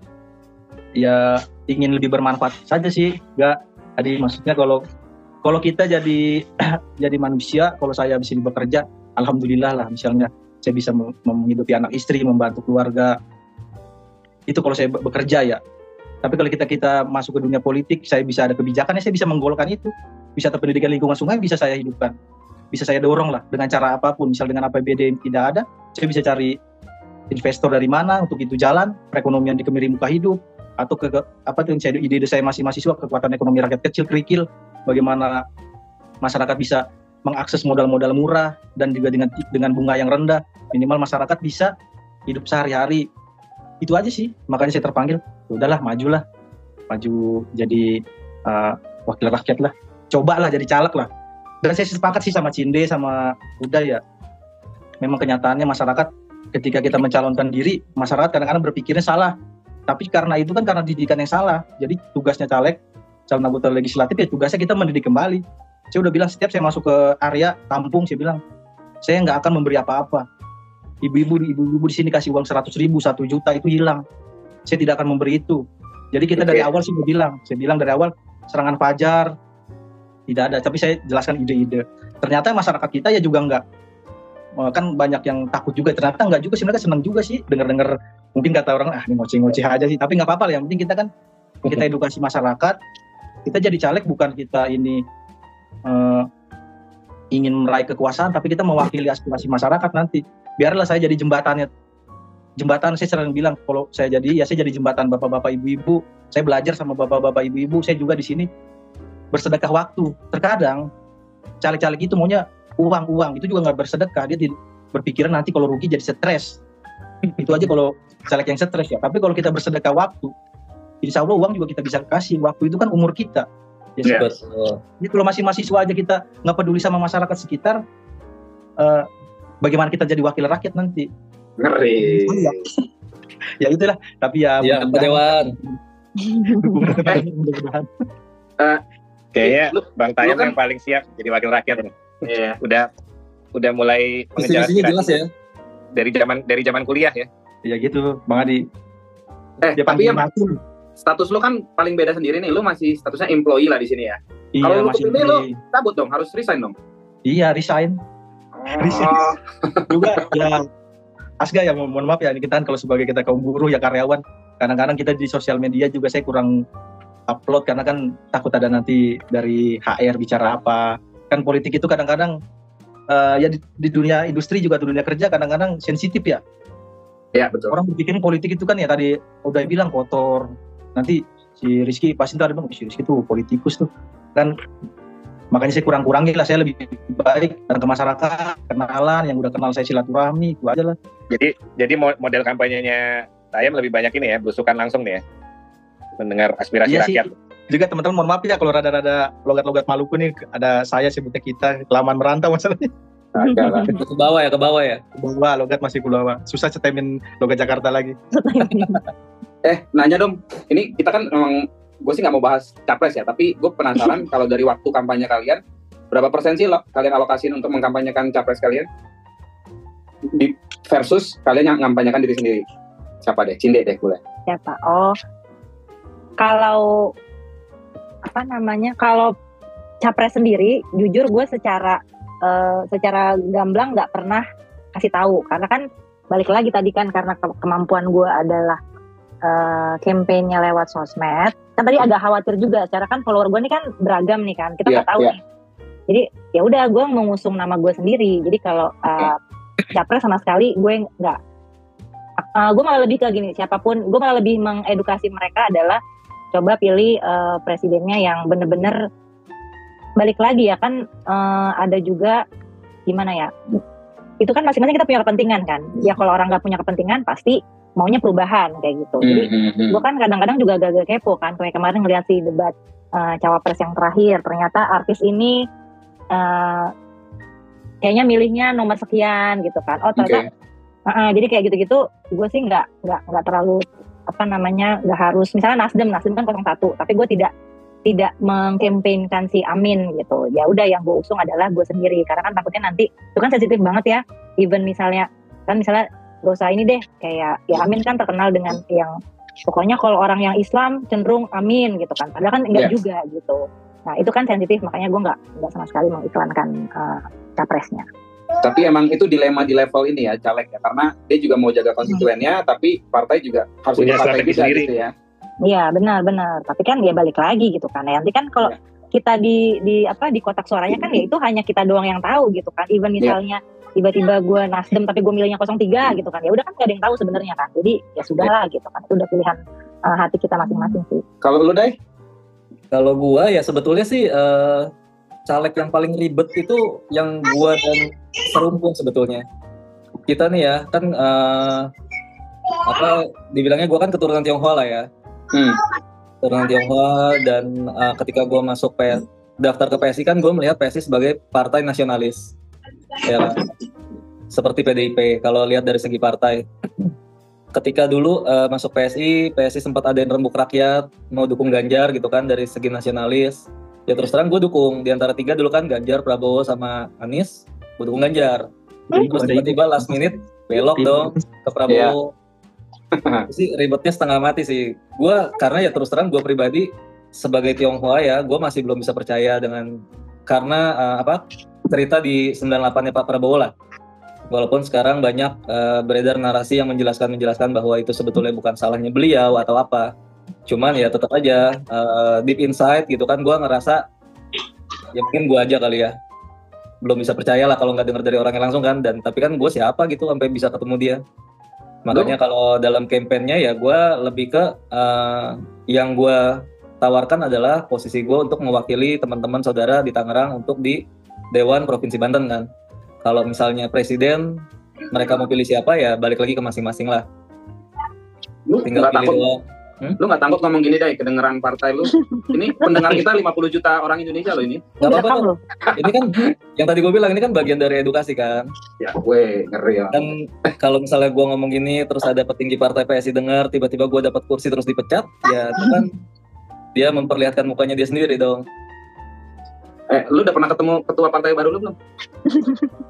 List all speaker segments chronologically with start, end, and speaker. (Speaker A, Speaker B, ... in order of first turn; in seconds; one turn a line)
Speaker A: 1.0-4.8
Speaker A: 5.4-13.2
Speaker A: 14.5-15.6
Speaker A: 16.2-22.1
Speaker A: 22.7-26.6
Speaker A: 27.3-35.4
Speaker A: 36.2-41.7
Speaker A: 42.3-43.1
Speaker A: 43.8-46.2
Speaker A: 46.9-51.1
Speaker A: 51.6-54.0
Speaker A: 55.0-59.4
Speaker A: 59.9-68.4
Speaker A: 69.0-70.3
Speaker A: 71.0-74.0
Speaker A: 74.7-79.3
Speaker B: 76.4-76.7
Speaker A: 80.3-83.6
Speaker A: 84.6-91.1
Speaker A: 91.7-92.8
Speaker A: 93.5-95.0
Speaker A: 95.9-96.3
Speaker A: 97.3-101.7
Speaker A: 102.6-108.5
Speaker A: 109.3-110.9
Speaker A: 111.6-116.6
Speaker A: 117.4-120.3
Speaker A: 121.0-123.5
Speaker A: 124.0-124.3
Speaker C: 124.1-124.8
Speaker A: 125.0-127.8
Speaker A: 128.8-129.1
Speaker A: 129.6-131.1
Speaker D: 131.6-132.6
Speaker A: 132.0-132.7
Speaker A: 133.6-135.8
Speaker C: 134.6-135.6
Speaker A: 136.4-137.9
Speaker B: 139.3-141.9
Speaker D: 139.4-140.6
Speaker D: 142.2-142.6
Speaker B: 142.6-142.9
Speaker B: 143.6-145.1
Speaker C: 144.4-145.3
Speaker B: 145.9-147.3
Speaker A: 147.7-148.7
Speaker D: 149.6-150.2
Speaker A: 149.8-150.6
Speaker D: 151.0-156.8
Speaker A: 154.6-155.6
Speaker A: 157.3-158.0
Speaker D: 158.6-159.9
Speaker A: 158.8-159.3
Speaker A: 159.9-160.7
Speaker A: 161.4-166.5
Speaker A: 167.3-172.4
Speaker A: 173.1-176.4
Speaker D: 177.3-177.8
Speaker A: 177.7-184.6
Speaker A: 185.5-191.0
Speaker B: 191.3-195.2
Speaker B: 196.2-197.3
Speaker A: 196.9-202.9
Speaker D: 203.4-203.9
Speaker E: 203.4-204.0
Speaker C: 203.8-205.0
Speaker A: 205.2-208.2
Speaker E: 208.3-209.0
Speaker D: 209.6-218.9
Speaker D: 220.3-222.7
Speaker D: 223.2-224.2
Speaker E: 224.5-225.2
Speaker E: 226.4-227.1
Speaker E: 228.3-229.3
Speaker E: 230.0-238.8
Speaker E: 239.4-245.3
Speaker D: 244.9-245.3
Speaker E: 246.1-249.4
Speaker E: 249.9-251.4
Speaker E: 252.4-256.0
Speaker E: 256.5-259.0
Speaker E: 260.2-262.4
Speaker E: 263.1-263.8
Speaker E: 264.4-275.6
Speaker D: 269.2-270.0
Speaker E: 276.3-276.9
Speaker E: 278.0-280.4
Speaker D: 280.2-280.5
Speaker E: 281.1-287.5
Speaker E: 288.1-299.1
Speaker E: 299.7-308.1
Speaker D: 308.6-315.1
Speaker B: 314.0-314.9
Speaker E: 315.6-331.2
Speaker D: 331.4-332.0
Speaker C: 332.9-334.9
Speaker C: 335.5-339.4
Speaker C: 340.3-341.9
Speaker C: 342.8-345.1
Speaker D: 345.5-345.8
Speaker C: 346.4-352.5
Speaker C: 353.2-353.7
Speaker C: 354.5-357.1
Speaker C: 357.7-372.3
Speaker A: 369.1-369.8
Speaker A: 370.9-371.4
Speaker B: 371.9-372.1
Speaker D: 373.1-373.5
Speaker C: 373.5-383.7
Speaker C: 384.5-390.1
Speaker C: 390.7-394.1
Speaker C: 395.1-396.2
Speaker C: 397.0-401.2
Speaker C: 402.1-412.7
Speaker C: 413.2-417.2
Speaker D: 418.7-419.4
Speaker C: 418.8-420.2
Speaker D: 420.2-425.0
Speaker E: 422.3-422.6
Speaker E: 425.0-425.6
Speaker C: 425.0-428.7
Speaker D: 429.0-430.2
Speaker C: 430.1-436.1
Speaker C: 436.9-438.6
Speaker D: 440.1-442.0